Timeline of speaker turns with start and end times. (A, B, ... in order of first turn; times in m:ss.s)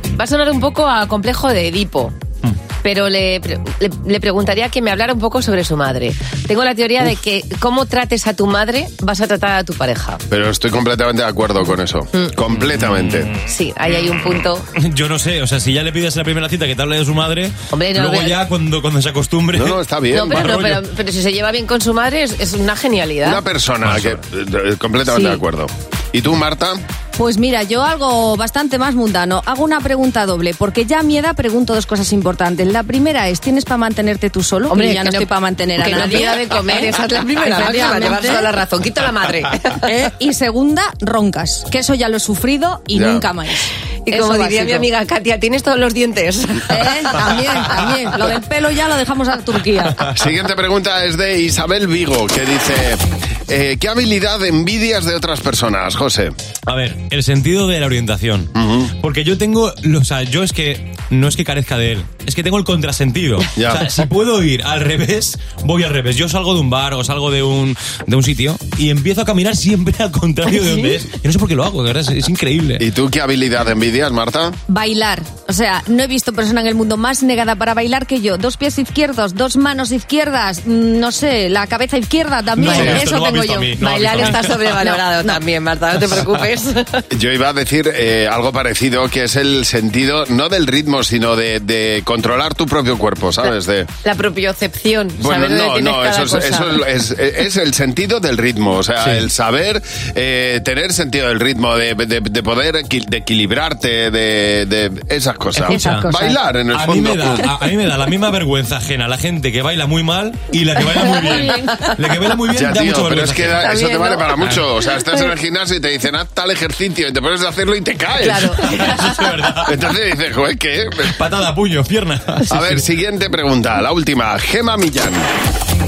0:00.1-0:02.2 A
0:02.8-0:10.2 A
0:10.3-0:13.3 B
0:12.5-0:13.5 C
0:13.5-0:14.7 A
0:14.8-0:20.8 C
0:17.7-0:18.4 A
0:19.5-0:20.4 B
0:20.1-0:23.4 A
0:23.2-0:26.8 B
0:23.8-0:24.2 C
0:25.1-0:25.4 A
0:27.2-0:38.5 D
0:34.7-0:39.9 A
0:39.8-0:44.9 D
0:42.9-0:43.2 B
0:44.1-0:47.7 A
0:46.7-0:50.0 D
0:50.1-0:56.3 B
0:56.7-1:12.9 C
0:58.6-0:58.9 B
1:03.6-1:03.9 B
1:12.8-1:14.6 B
1:14.7-1:23.7 D
1:22.6-1:24.8 C
1:22.6-1:23.0 A
1:23.8-1:27.0 A
1:24.8-1:25.4 D
1:26.0-1:26.3 C
1:27.1-1:33.9 B
1:34.0-1:36.8 A
1:35.2-1:47.6 B
1:39.0-1:39.3 C
1:45.6-1:46.4 D
1:45.7-1:46.1 C
1:46.7-1:53.8 C
1:51.0-1:52.0 A
1:51.1-1:51.7 D
1:52.5-1:59.0 B
1:53.6-1:54.4 A
1:54.4-1:54.7 C
1:55.0-1:55.3 A
1:58.2-1:59.3 A
1:58.4-1:59.8 C
1:59.6-2:01.2 B
2:01.1-2:02.9 C
2:02.5-2:05.3 B